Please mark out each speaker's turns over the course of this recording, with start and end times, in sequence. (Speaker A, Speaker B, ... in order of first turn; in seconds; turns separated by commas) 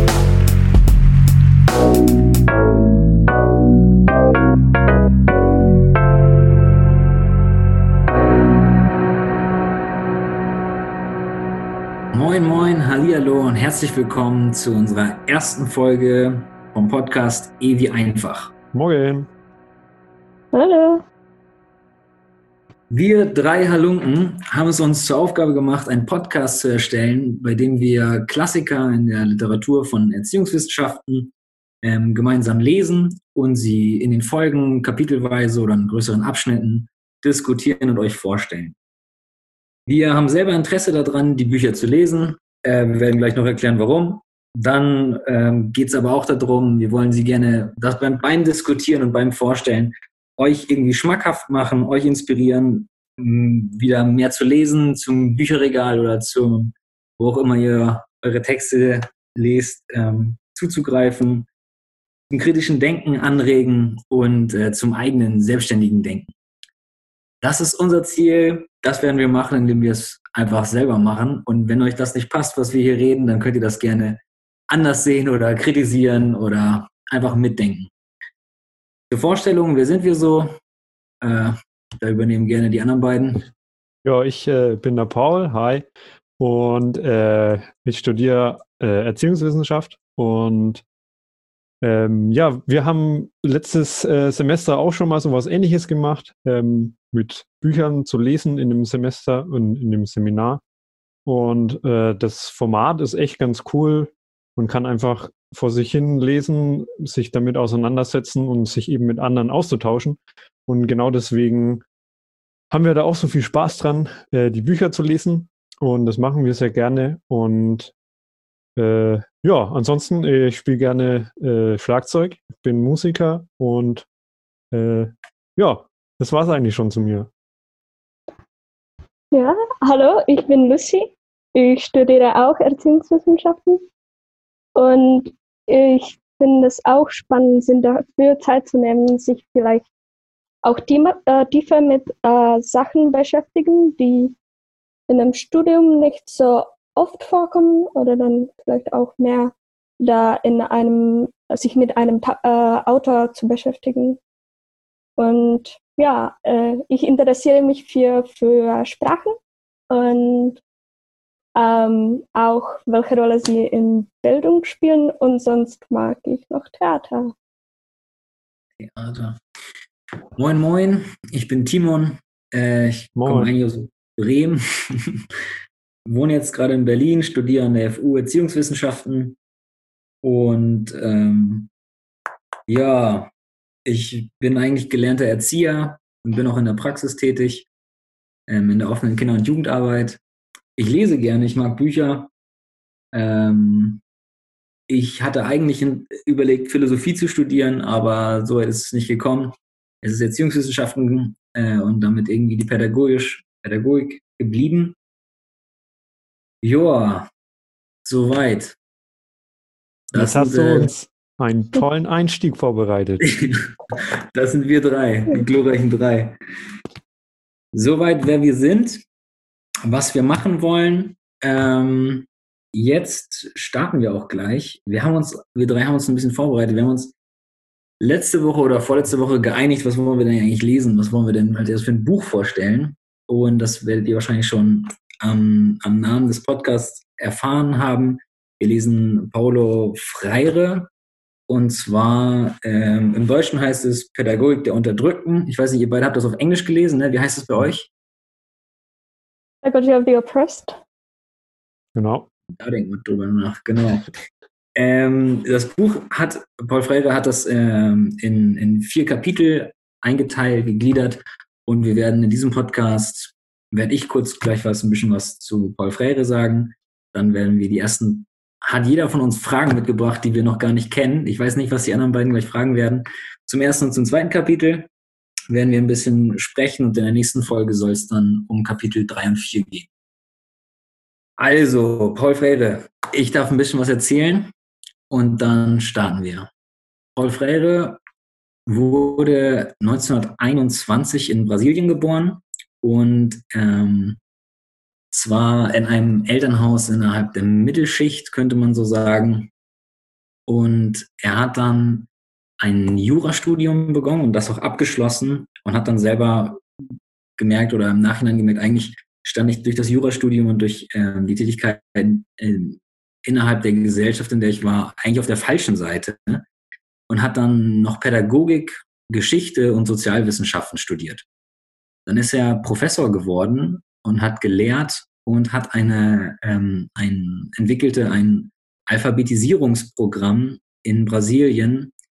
Speaker A: 12.1-18.5, Speaker B: 18.7-19.3, Speaker C: 20.5-21.0, Speaker A: 22.9-31.3, Speaker A: 31.8-38.8, Speaker A: 39.9-61.5, Speaker A: 62.3-66.3, Speaker A: 67.4-77.9, Speaker A: 79.1-80.6, Speaker A: 81.2-83.5, Speaker B: 84.0-85.9, Speaker B: 86.4-90.8, Speaker B: 91.8-100.6, Speaker B: 101.3-111.8, Speaker B: 112.7-117.9, Speaker B: 118.8-124.1, Speaker B: 124.7-127.3, Speaker C: 129.3-133.8, Speaker C: 134.8-139.8, Speaker C: 140.6-144.3, Speaker C: 145.1-154.2, Speaker C: 155.2-159.4, Speaker C: 159.9-160.6, Speaker C: 161.6-167.3, Speaker A: 168.8-169.4, Speaker A: 170.4-175.2, Speaker B: 173.2-173.5, Speaker A: 176.1-179.4, Speaker A: 180.2-181.7, Speaker A: 182.7-183.3, Speaker A: 183.9-187.7, Speaker A: 188.5-190.2, Speaker A: 190.8-192.3, Speaker A: 193.1-194.0, Speaker A: 194.9-205.0, Speaker A: 206.6-207.3, Speaker A: 208.1-208.8, Speaker A: 210.1-210.9, Speaker B: 210.1-213.2, Speaker A: 213.2-213.7, Speaker A: 214.3-216.4, Speaker A: 217.7-219.0, Speaker A: 219.8-227.1, Speaker A: 228.0-240.9, Speaker A: 241.5-247.9, Speaker C: 249.6-250.8, Speaker B: 252.0-252.3, Speaker A: 252.6-254.1, Speaker A: 254.8-274.9, Speaker A: 275.5-279.9, Speaker A: 281.4-284.5, Speaker A: 285.1-286.5, Speaker A: 287.2-288.0, Speaker A: 288.7-294.2, Speaker A: 295.1-299.5, Speaker A: 300.5-302.1, Speaker A: 302.6-306.6, Speaker A: 307.4-316.4, Speaker A: 317.1-321.2, Speaker A: 322.1-331.9